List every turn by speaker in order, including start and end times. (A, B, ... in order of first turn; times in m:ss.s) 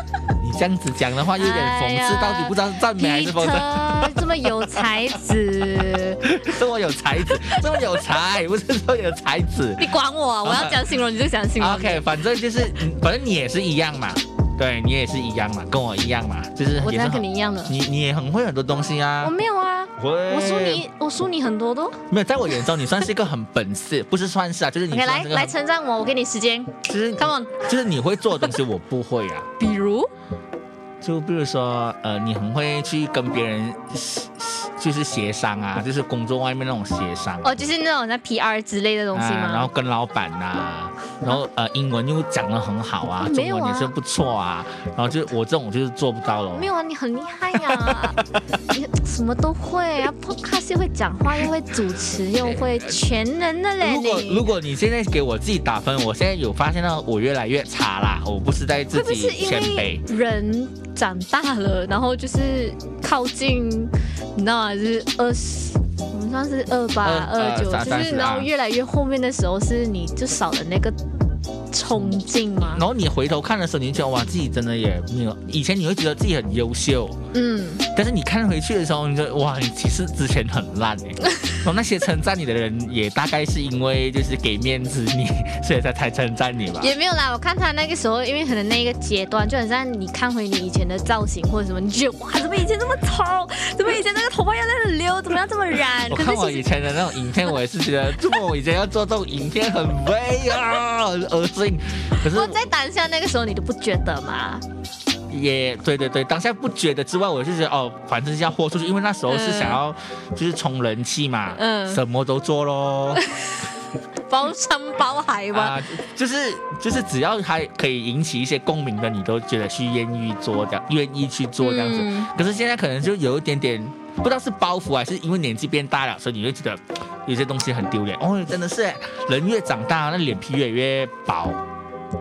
0:00.4-0:05.0 A
0:01.4-0:06.5 B
0:05.8-0:09.9 A
0:09.8-0:12.1 B
0:10.4-0:10.9 A
0:11.6-0:19.3 A
0:16.8-0:17.8 B
0:19.2-0:22.0 B
0:20.0-0:20.8 A
0:22.1-0:25.5 A
0:24.9-0:27.7 B
0:26.8-0:29.5 A
0:29.6-0:30.1 B
0:31.0-0:37.7 A
0:37.4-0:39.7 B
0:39.1-0:46.7 A
0:43.2-0:43.9 B
0:46.5-0:54.5 B
0:47.6-0:48.1 A
0:52.4-0:53.0 A
0:53.8-1:00.0 A
0:58.9-1:11.0 B
1:07.0-1:08.5 A
1:11.7-1:12.8 B
1:12.6-1:17.2 A
1:17.3-1:17.8 B
1:17.9-1:26.9 A
1:26.8-1:36.7 B
1:36.1-1:42.6 A
1:42.2-1:44.6 B
1:45.3-1:53.2 A
1:49.3-1:49.8 B
1:51.6-1:52.0 B
1:53.2-1:53.6 B
1:54.3-1:55.8 B
1:55.5-2:11.6 A
2:01.6-2:02.3 B